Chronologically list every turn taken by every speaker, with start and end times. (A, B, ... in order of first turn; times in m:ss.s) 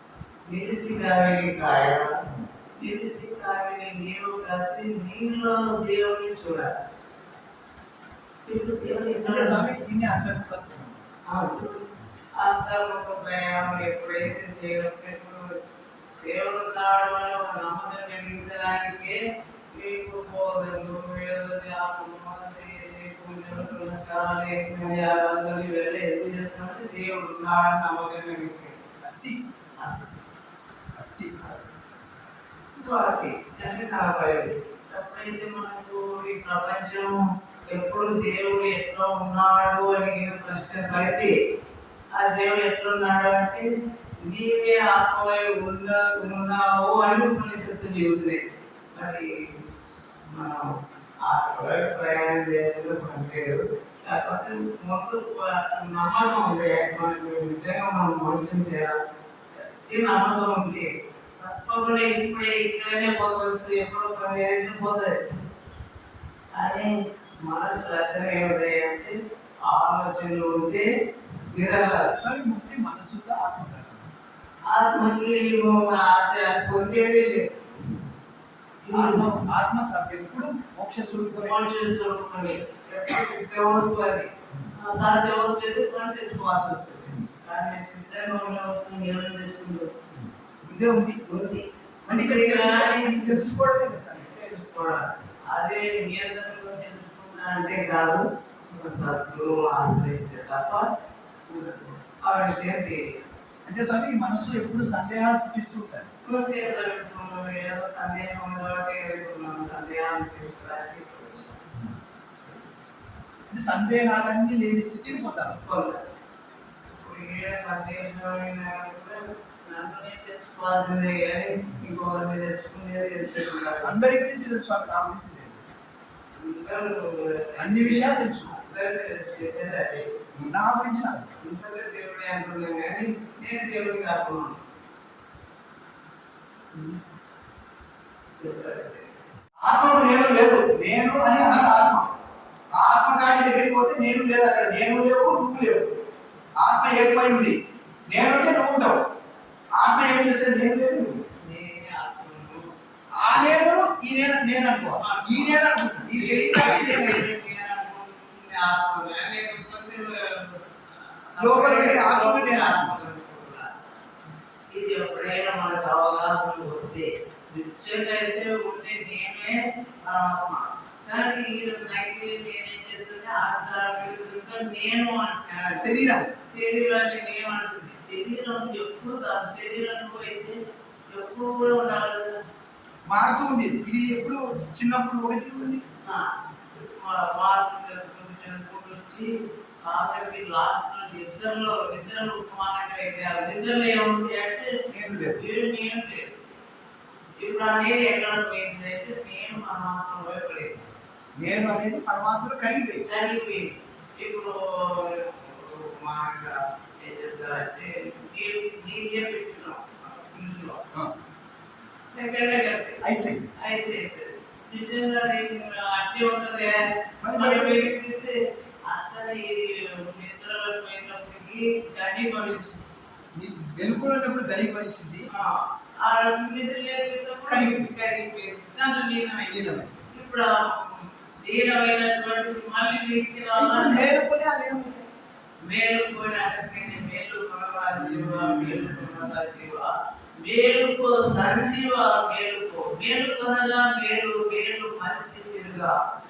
0:00.5-0:02.1 A
0:02.8-0:06.7 A
0:08.5-0:09.6 A
0:09.2-0:11.0 B
0:11.3-0:11.7 A
0:12.4-0:15.6 A
0:16.2-0:19.2 A
0:19.7-0:28.8 A
0:29.0-0:29.4 B
0:31.0-0:31.4 B
0:31.4-0:31.7 A
0:32.8-0:37.2 A
0:37.7-0:41.3 A
0:42.2-0:43.7 A
0:44.2-0:49.3 A
0:50.3-0:50.7 A
0:51.2-0:59.0 A
0:59.6-1:05.2 A
1:06.6-1:06.9 A
1:07.4-1:10.9 A
1:11.5-1:12.1 A
1:12.2-1:14.1 B
1:14.7-1:17.6 A
1:18.9-1:19.2 A
1:18.9-1:21.6 B
1:21.4-1:29.9 A
1:30.6-1:31.2 B
1:31.3-1:33.4 A
1:32.1-1:34.6 B
1:34.5-1:40.9 A
1:41.5-1:43.0 A
1:43.7-1:46.1 B
1:46.3-1:51.6 A
1:53.5-1:55.6 B
1:55.6-1:56.1 A
1:57.0-2:03.9 A
2:03.8-2:05.6 B
2:06.4-2:10.1 A
2:07.6-2:08.5 B
2:10.3-2:11.3 B
2:11.4-2:14.6 A
2:18.4-2:19.1 A
2:19.6-2:22.1 B
2:22.7-2:26.0 B
2:26.6-2:27.6 B
2:28.1-2:29.0 B
2:29.8-2:31.2 B
2:31.4-2:32.7 A
2:33.2-2:37.2 B
2:34.9-2:43.7 A
2:41.4-2:42.9 B
2:44.7-3:00.6 A
2:55.8-2:56.3 B
3:01.1-3:02.4 A
3:03.1-3:05.8 B
3:06.0-3:09.3 A
3:09.8-3:16.5 A
3:14.9-3:15.4 B
3:17.4-3:20.9 A
3:21.4-3:23.0 B
3:23.1-3:30.8 A
3:32.1-3:33.0 A
3:33.0-3:33.5 B
3:33.6-3:36.8 A
3:37.2-3:37.9 B
3:37.4-3:38.4 A
3:38.9-3:42.8 A
3:43.4-3:45.3 B
3:45.3-3:54.1 A
3:47.5-3:48.0 B
3:49.5-3:50.1 B
3:53.6-3:55.1 B
3:55.7-3:59.9 A
3:58.0-3:59.3 B
4:00.4-4:05.9 A